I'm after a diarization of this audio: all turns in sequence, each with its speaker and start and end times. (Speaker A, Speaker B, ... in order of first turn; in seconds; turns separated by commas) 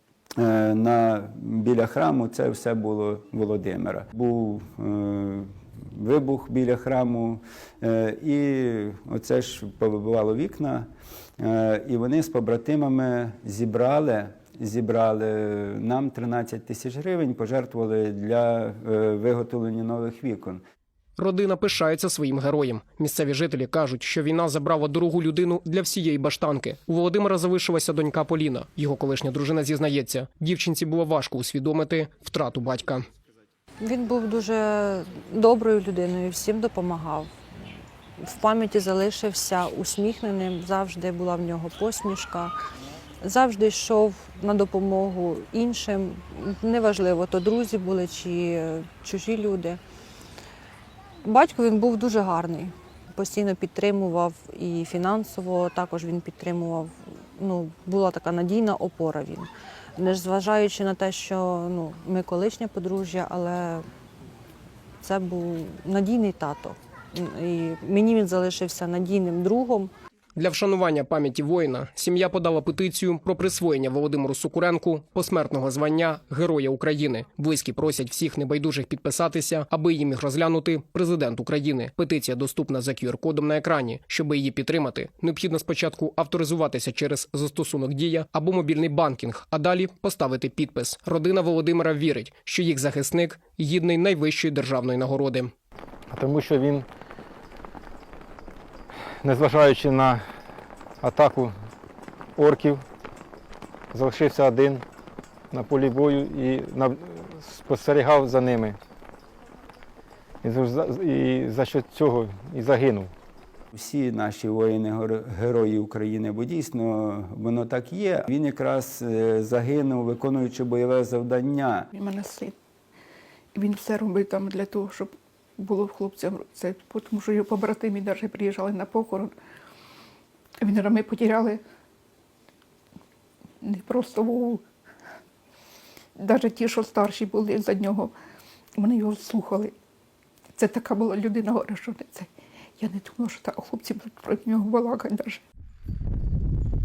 Speaker A: 0.4-20.6, Speaker B: 21.2-33.0, Speaker C: 33.8-37.3, Speaker C: 38.2-42.5, Speaker C: 43.2-49.8, Speaker C: 51.2-63.9, Speaker C: 65.0-69.9, Speaker B: 70.4-95.5, Speaker D: 96.1-96.9, Speaker D: 99.2-100.2, Speaker D: 101.0-101.5, Speaker D: 102.4-102.8, Speaker D: 103.9-104.8, Speaker D: 105.5-108.8, Speaker D: 110.4-113.1, Speaker A: 113.7-121.9, Speaker E: 121.9-122.5, Speaker E: 123.5-129.3, Speaker E: 130.6-131.6, Speaker E: 133.6-134.6, Speaker E: 136.2-138.1, Speaker E: 138.8-139.8, Speaker E: 140.6-145.4